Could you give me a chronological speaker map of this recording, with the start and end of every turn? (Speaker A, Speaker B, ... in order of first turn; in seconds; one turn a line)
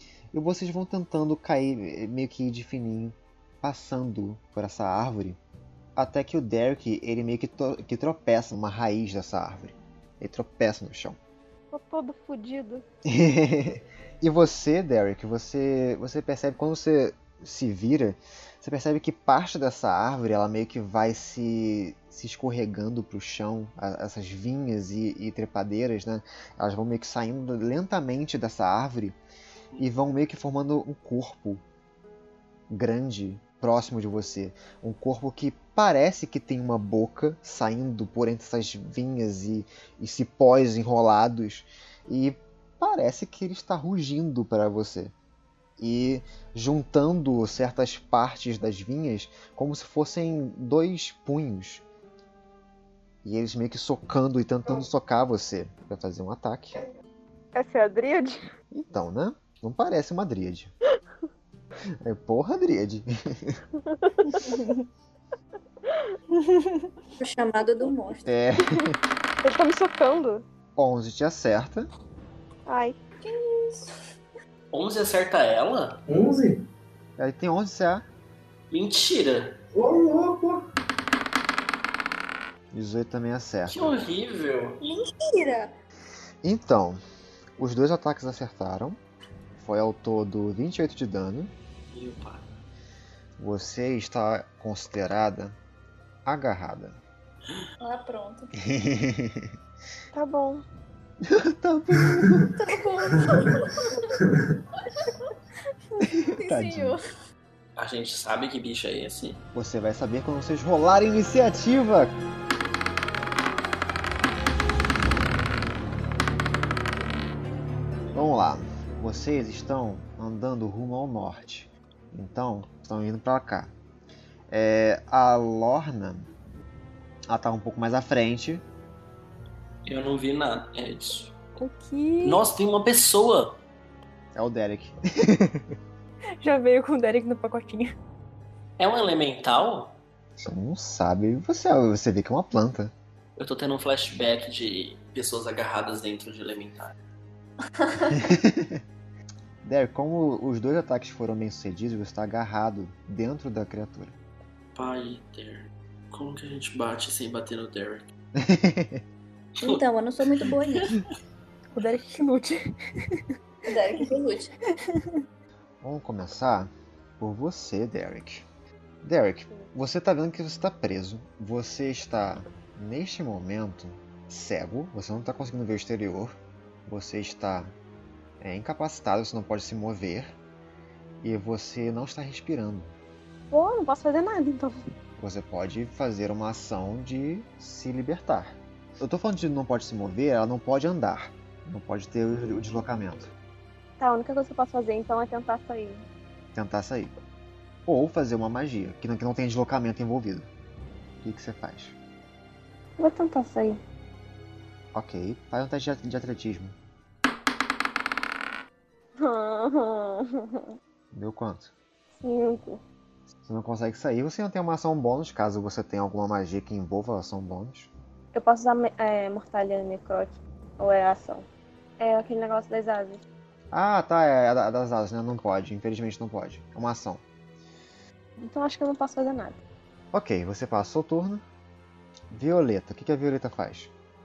Speaker A: 0.3-5.4
Speaker A: 6.0-11.2
Speaker B: 11.7-12.8
Speaker A: 13.1-29.2
Speaker A: 29.8-31.6
Speaker A: 32.7-45.1
Speaker A: 45.8-51.8
Speaker A: 53.2-56.8
Speaker B: 57.5-58.4
Speaker A: 58.7-60.7
Speaker A: 62.0-63.6
Speaker B: 63.8-64.6
Speaker C: 64.4-64.8
Speaker C: 66.4-66.9
Speaker D: 67.2-68.3
Speaker A: 68.2-69.0
Speaker B: 69.4-70.4
Speaker A: 70.8-71.9
Speaker B: 72.7-73.0
Speaker C: 73.4-73.9
Speaker E: 74.7-76.0
Speaker F: 76.1-76.7
Speaker A: 77.2-78.1
Speaker E: 78.7-79.6
Speaker F: 79.7-80.6
Speaker A: 82.7-83.9
Speaker E: 83.7-84.8
Speaker D: 84.8-85.7
Speaker A: 86.4-87.0
Speaker A: 87.6-89.0
Speaker A: 89.6-91.5
Speaker E: 91.9-92.5
Speaker A: 93.4-95.6
Speaker A: 96.2-97.0
Speaker D: 97.8-98.6
Speaker A: 98.6-99.5
Speaker B: 100.1-100.6
Speaker A: 101.2-102.5
Speaker D: 102.6-104.1
Speaker F: 104.2-104.6
Speaker A: 106.0-107.0
Speaker D: 106.4-107.0
Speaker E: 107.8-109.4
Speaker A: 109.5-112.1
Speaker A: 118.1-123.7
Speaker A: 124.5-126.3
Speaker A: 127.3-128.6
Speaker E: 129.9-131.3
Speaker C: 131.6-132.4
Speaker E: 132.2-133.6
Speaker A: 134.3-135.8
Speaker C: 136.4-137.9
Speaker E: 138.8-140.0
Speaker A: 140.4-142.9
Speaker E: 143.4-146.9
Speaker A: 148.1-148.8
Speaker A: 149.6-154.2
Speaker E: 154.8-158.1
Speaker A: 158.3-159.0
Speaker D: 159.6-161.0
Speaker C: 161.8-163.2
Speaker D: 163.7-164.5
Speaker C: 164.8-165.1
Speaker A: 165.8-168.5
Speaker A: 169.0-177.7
Speaker A: 178.4-180.4
Speaker A: 181.2-182.9
Speaker B: 183.5-184.9
Speaker A: 185.2-193.3
Speaker B: 194.0-196.1
Speaker A: 196.5-197.1
Speaker A: 197.9-200.5
Speaker A: 201.2-201.9
Speaker B: 203.0-203.8
Speaker A: 204.9-206.8
Speaker B: 209.2-210.7
Speaker A: 211.1-211.7
Speaker B: 212.2-212.8
Speaker A: 213.4-217.9
Speaker B: 218.3-221.5
Speaker B: 222.0-223.2
Speaker A: 223.7-227.2
Speaker B: 228.4-229.6
Speaker A: 230.1-231.4
Speaker A: 232.3-233.9